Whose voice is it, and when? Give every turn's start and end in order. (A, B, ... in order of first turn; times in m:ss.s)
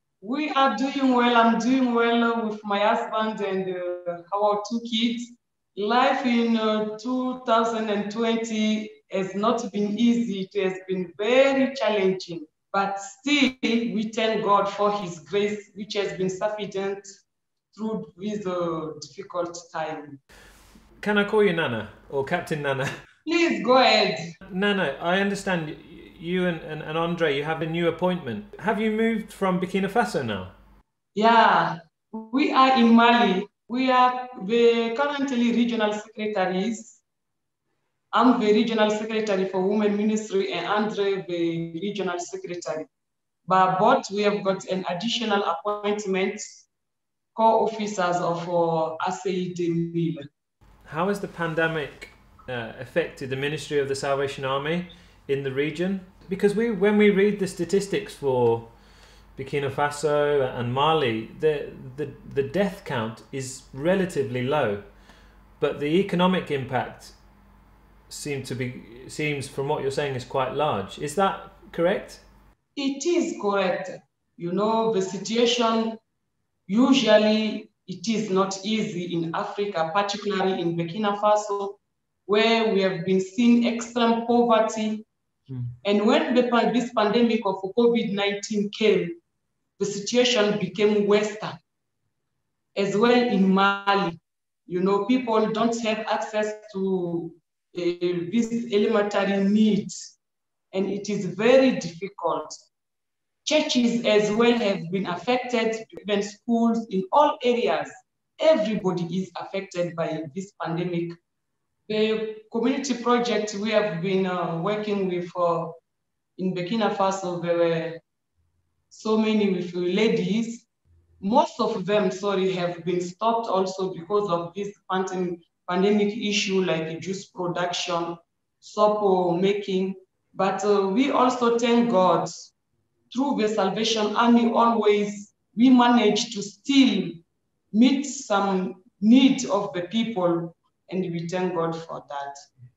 0:00.2-0:17.2 A
0:17.7-0:20.2 A
0:21.0-0:23.0 B
0:23.3-0:24.3 A
0:24.4-0:30.5 B
0:31.2-0:37.0 A
0:38.1-0:42.9 A
0:43.5-0:46.6 A
0:47.4-0:50.3 A
0:50.9-0:58.7 B
0:59.4-1:04.9 B
1:05.6-1:07.1 B
1:08.1-1:12.2 B
1:12.8-1:16.0 A
1:16.7-1:25.1 A
1:25.8-1:29.2 A
1:29.8-1:31.6 A
1:32.8-1:39.9 A
1:40.7-1:42.6 A
1:43.5-1:51.2 A
1:51.9-1:55.8 A
1:56.4-1:58.0 A
1:58.9-2:00.6 A
2:01.2-2:12.5 A
2:13.1-2:22.4 A